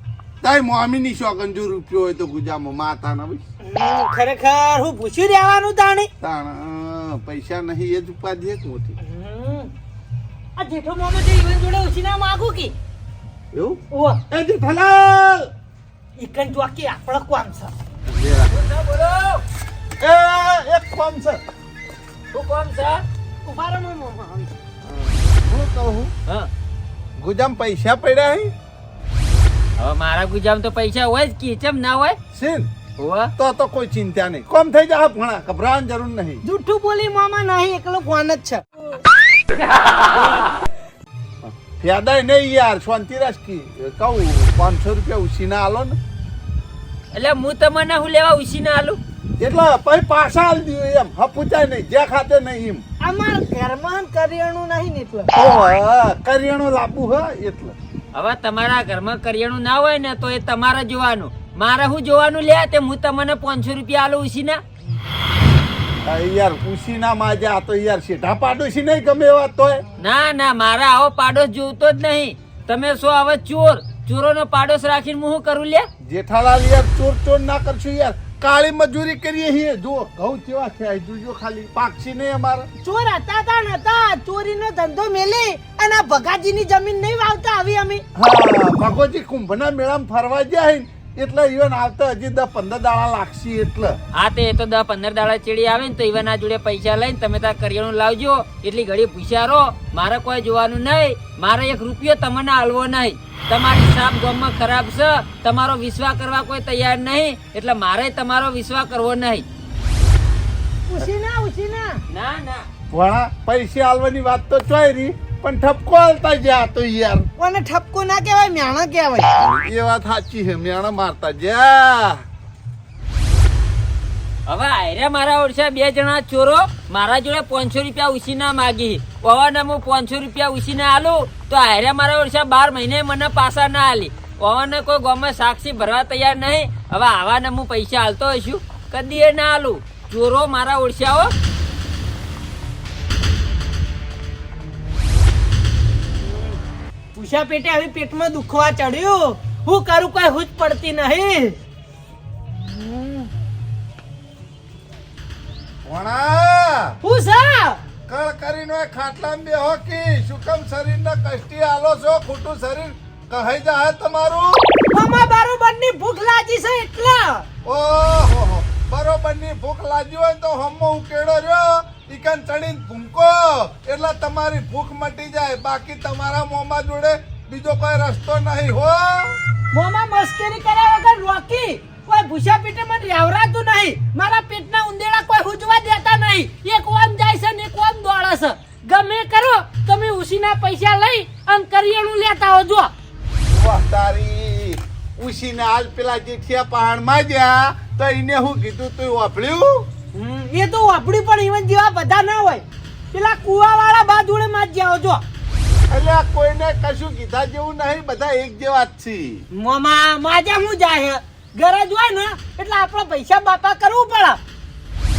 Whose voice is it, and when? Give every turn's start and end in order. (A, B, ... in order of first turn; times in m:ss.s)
0:00.4-0:03.4 A
0:03.6-0:06.1 B
0:06.2-0:09.0 A
0:09.0-0:09.7 B
0:10.6-0:12.7 B
0:13.5-0:15.5 A
0:13.9-0:14.2 B
0:16.2-0:17.7 B
0:18.1-0:18.5 A
0:18.5-0:19.4 C
0:20.0-0:21.4 A
0:22.3-0:23.0 C
0:23.4-0:24.6 B
0:24.8-0:26.1 A
0:27.2-0:28.5 A
0:29.8-0:32.2 C
0:32.3-0:32.7 A
0:33.0-0:33.3 C
0:33.4-0:36.4 A
0:36.4-0:38.6 B
0:41.4-0:46.0 A
0:47.1-0:49.0 C
0:49.4-0:52.8 A
0:53.0-0:55.3 B
0:55.3-0:57.8 A
0:58.2-1:04.6 C
1:06.0-1:09.8 A
1:10.0-1:15.9 C
1:16.0-1:22.7 A
1:22.8-1:28.0 B
1:28.2-1:34.0 A
1:34.1-1:49.4 C
1:50.9-1:52.0 B
1:52.1-1:52.7 C
1:52.9-1:57.3 A
1:57.4-1:59.4 B
1:59.4-2:02.2 A
2:04.5-2:21.3 C
2:26.2-2:26.6 B
2:27.2-2:31.6 B
2:35.8-2:37.0 A
2:37.0-2:37.8 B
2:38.1-2:44.6 A
2:44.9-2:47.5 B
2:47.6-2:59.4 A
2:59.7-3:12.9 B
3:13.5-3:19.9 A
3:20.1-3:25.2 B
3:25.9-3:29.4 A
3:29.5-3:34.4 B